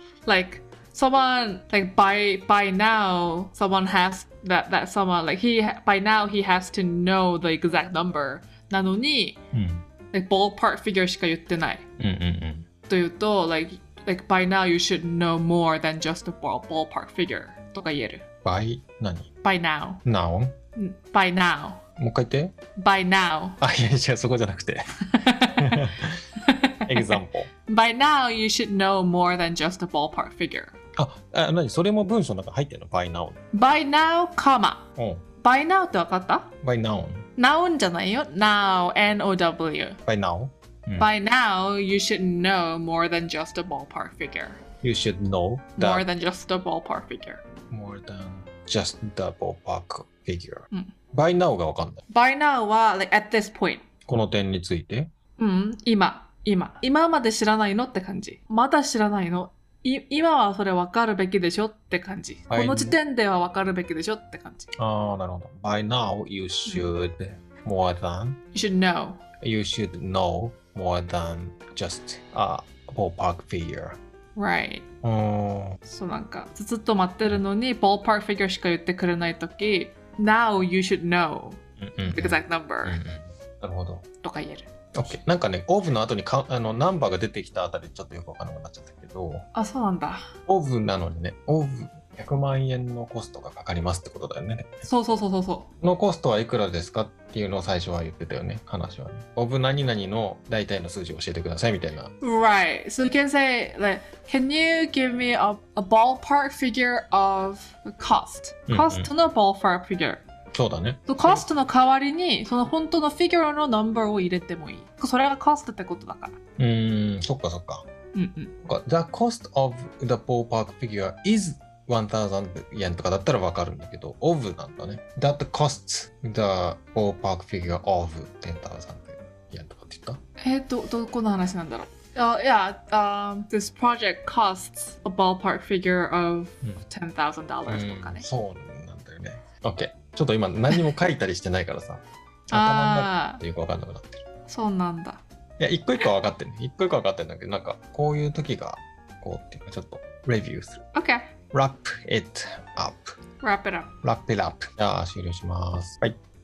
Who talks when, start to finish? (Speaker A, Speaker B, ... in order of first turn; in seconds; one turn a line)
Speaker A: 0.3-9.4
Speaker B: 9.5-9.8
Speaker A: 10.1-11.8
Speaker B: 12.0-12.7
Speaker A: 12.9-18.2
Speaker B: 18.4-19.3
Speaker A: 19.4-20.0
Speaker B: 20.1-20.6
Speaker A: 20.8-21.8
Speaker B: 22.0-22.6
Speaker A: 22.8-23.6
Speaker B: 23.6-24.9
Speaker A: 25.1-30.7
Speaker B: 25.6-26.2
Speaker B: 26.9-27.5
Speaker B: 31.0-33.4
Speaker A: 33.5-34.8
Speaker B: 35.0-35.2
Speaker A: 35.4-36.5
Speaker B: 36.6-37.3
Speaker A: 37.4-40.0
Speaker B: 40.1-41.1
Speaker A: 41.0-44.6
Speaker B: 44.8-46.1
Speaker A: 45.8-47.4
Speaker B: 47.7-52.0
Speaker A: 52.1-53.8
Speaker B: 54.1-55.1
Speaker A: 55.4-64.7
Speaker B: 62.5-63.0
Speaker B: 64.8-68.4
Speaker A: 68.5-69.2
Speaker B: 69.4-74.0
Speaker A: 74.4-74.8
Speaker B: 75.0-75.8
Speaker A: 75.8-83.0
Speaker B: 81.8-84.1
Speaker A: 84.2-84.7
Speaker B: 85.0-89.5
Speaker A: 89.5-90.3
Speaker B: 90.5-94.9
Speaker A: 94.8-95.7
Speaker B: 95.8-102.1
Speaker A: 102.2-110.2
Speaker B: 108.7-109.1
Speaker B: 110.5-111.4
Speaker A: 111.1-116.4
Speaker B: 116.6-117.9
Speaker A: 118.1-118.5
Speaker B: 118.6-130.2
Speaker A: 130.4-138.3
Speaker B: 137.7-144.2
Speaker A: 142.5-143.4
Speaker A: 144.5-145.2
Speaker B: 145.6-150.8
Speaker A: 150.9-151.3
Speaker B: 151.5-153.2
Speaker A: 153.4-153.9
Speaker B: 154.0-156.2